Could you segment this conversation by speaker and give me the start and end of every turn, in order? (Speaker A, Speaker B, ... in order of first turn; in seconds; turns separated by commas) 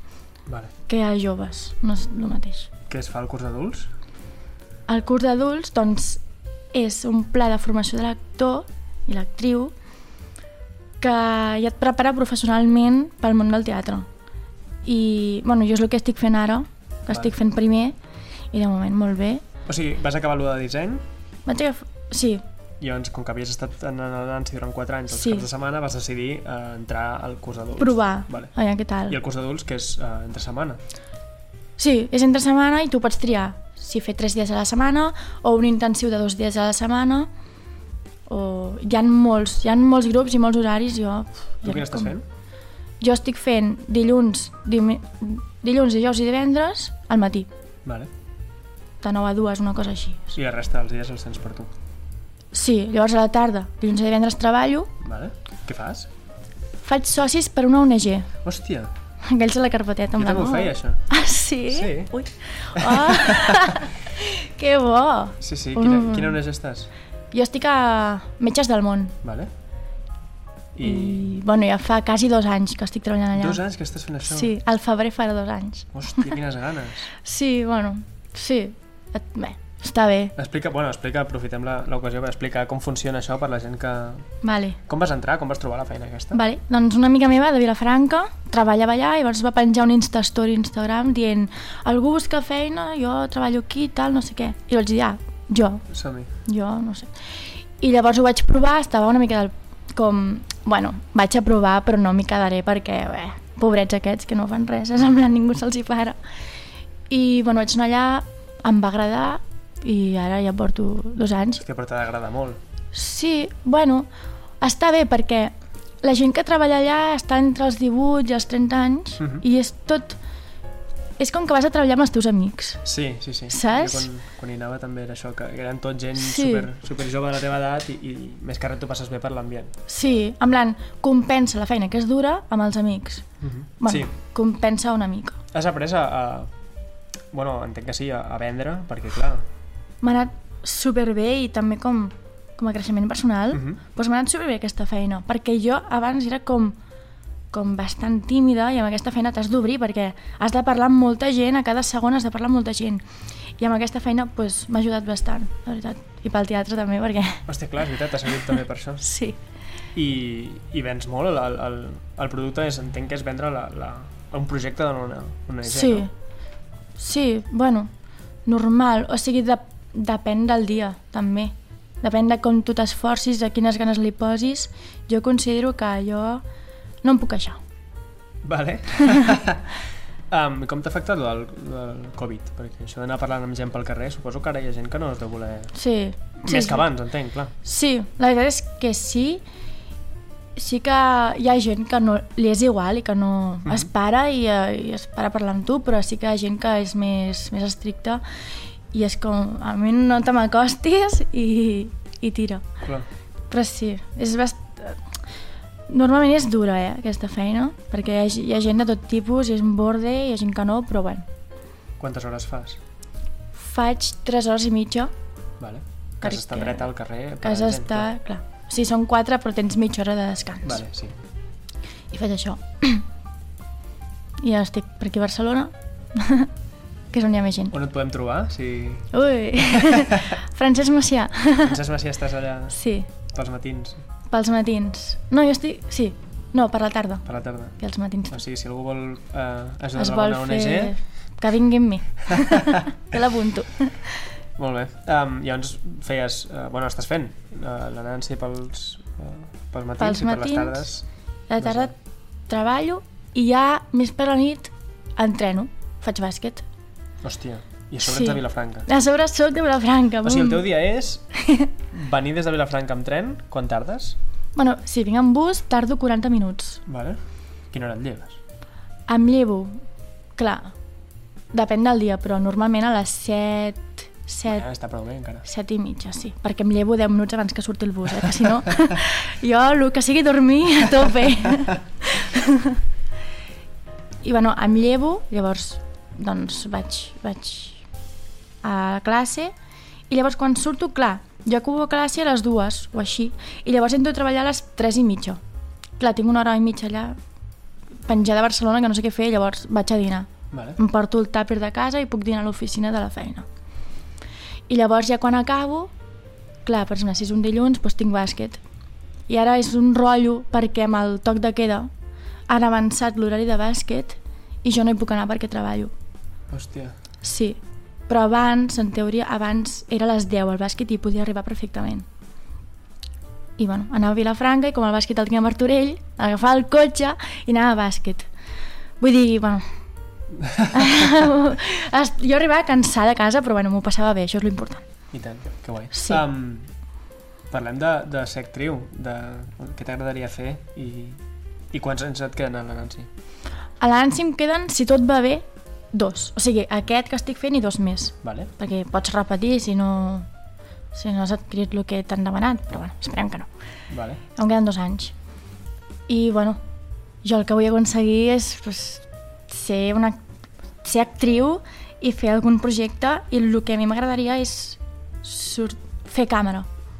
Speaker A: 0.5-0.7, Speaker B: 0.9-2.7, Speaker A: 2.9-3.9, Speaker B: 4.9-6.2, Speaker B: 6.7-9.7, Speaker B: 11.0-14.1, Speaker B: 14.8-17.9, Speaker B: 18.5-19.4, Speaker A: 19.6-21.0, Speaker B: 21.4-22.4, Speaker A: 22.8-28.6, Speaker B: 25.1-25.5, Speaker B: 27.8-29.2, Speaker A: 29.1-30.8, Speaker B: 31.8-37.3, Speaker B: 38.2-42.1, Speaker A: 41.6-42.2, Speaker B: 43.0-47.5, Speaker A: 47.8-48.1, Speaker B: 49.0-50.3, Speaker A: 50.3-51.7, Speaker B: 52.5-54.9, Speaker A: 55.0-56.1, Speaker B: 56.8-58.3, Speaker A: 58.4-58.9, Speaker B: 59.2-66.4, Speaker A: 60.2-61.0, Speaker A: 61.7-62.1, Speaker A: 62.7-63.7, Speaker A: 65.4-66.9, Speaker B: 67.3-69.2, Speaker A: 69.2-69.5, Speaker A: 70.7-71.2, Speaker B: 70.8-73.6, Speaker A: 73.3-74.5, Speaker B: 74.2-76.3, Speaker A: 75.9-77.1, Speaker B: 77.2-80.3, Speaker A: 80.3-86.4, Speaker B: 84.4-84.8, Speaker B: 86.3-95.9, Speaker A: 95.9-96.3, Speaker B: 96.4-106.2, Speaker B: 107.1-111.6, Speaker A: 111.6-112.6, Speaker B: 112.9-114.1, Speaker B: 114.6-120.2, Speaker B: 121.2-122.8, Speaker A: 122.8-129.7, Speaker B: 123.5-124.1, Speaker B: 126.2-126.7, Speaker B: 129.9-133.3, Speaker A: 133.4-134.1, Speaker B: 133.8-135.4, Speaker A: 135.5-136.5, Speaker A: 137.3-139.4, Speaker B: 140.0-146.8, Speaker A: 143.5-143.8, Speaker B: 147.5-153.0, Speaker B: 153.6-157.4, Speaker A: 157.5-159.0, Speaker B: 159.0-159.4, Speaker A: 159.9-166.1, Speaker B: 165.7-166.1, Speaker B: 167.0-167.9, Speaker B: 168.4-176.4, Speaker B: 177.0-177.6, Speaker A: 178.4-179.7, Speaker A: 180.3-185.7, Speaker B: 185.7-186.8, Speaker A: 186.4-187.5, Speaker B: 187.6-189.4, Speaker B: 190.6-198.2, Speaker B: 198.9-202.6, Speaker A: 202.8-203.1, Speaker B: 203.5-205.0, Speaker B: 205.9-211.2, Speaker A: 212.0-212.8, Speaker B: 213.5-215.1, Speaker A: 215.6-218.1, Speaker B: 216.2-216.9, Speaker B: 217.4-220.8, Speaker A: 220.6-221.2, Speaker B: 222.1-223.0, Speaker B: 224.4-226.5, Speaker B: 227.1-227.7, Speaker A: 227.7-230.1, Speaker B: 229.1-231.8, Speaker A: 231.6-234.0, Speaker B: 232.7-233.1, Speaker B: 234.3-238.4, Speaker A: 237.2-237.8, Speaker A: 238.3-241.0, Speaker B: 239.9-244.2, Speaker A: 244.6-251.1, Speaker B: 250.0-250.8, Speaker B: 251.5-256.6, Speaker A: 251.6-251.9, Speaker A: 257.2-258.9, Speaker B: 258.0-260.6, Speaker A: 260.2-261.3, Speaker B: 261.3-261.7, Speaker A: 261.9-264.2, Speaker B: 264.6-266.8, Speaker A: 266.9-268.4, Speaker B: 269.1-269.8, Speaker B: 270.4-270.7, Speaker B: 271.5-274.7, Speaker A: 274.5-275.4, Speaker B: 275.4-282.8, Speaker B: 284.2-287.8, Speaker B: 288.6-289.5, Speaker B: 290.1-295.4, Speaker B: 296.0-297.2, Speaker B: 298.0-303.4, Speaker A: 300.5-300.8, Speaker B: 304.7-305.9, Speaker B: 306.6-308.6, Speaker B: 309.3-311.9, Speaker B: 312.5-315.9, Speaker A: 316.5-316.9, Speaker B: 317.2-322.1, Speaker B: 323.6-328.3, Speaker B: 329.0-329.6, Speaker A: 330.4-330.7, Speaker B: 330.7-334.9, Speaker A: 335.1-336.7, Speaker B: 335.9-336.2, Speaker A: 337.5-341.2, Speaker A: 341.7-343.1, Speaker B: 343.8-350.3, Speaker A: 348.2-348.5, Speaker B: 350.9-353.5, Speaker A: 353.9-354.2, Speaker B: 354.4-355.1, Speaker B: 356.1-356.6, Speaker B: 357.2-360.2, Speaker B: 360.8-366.7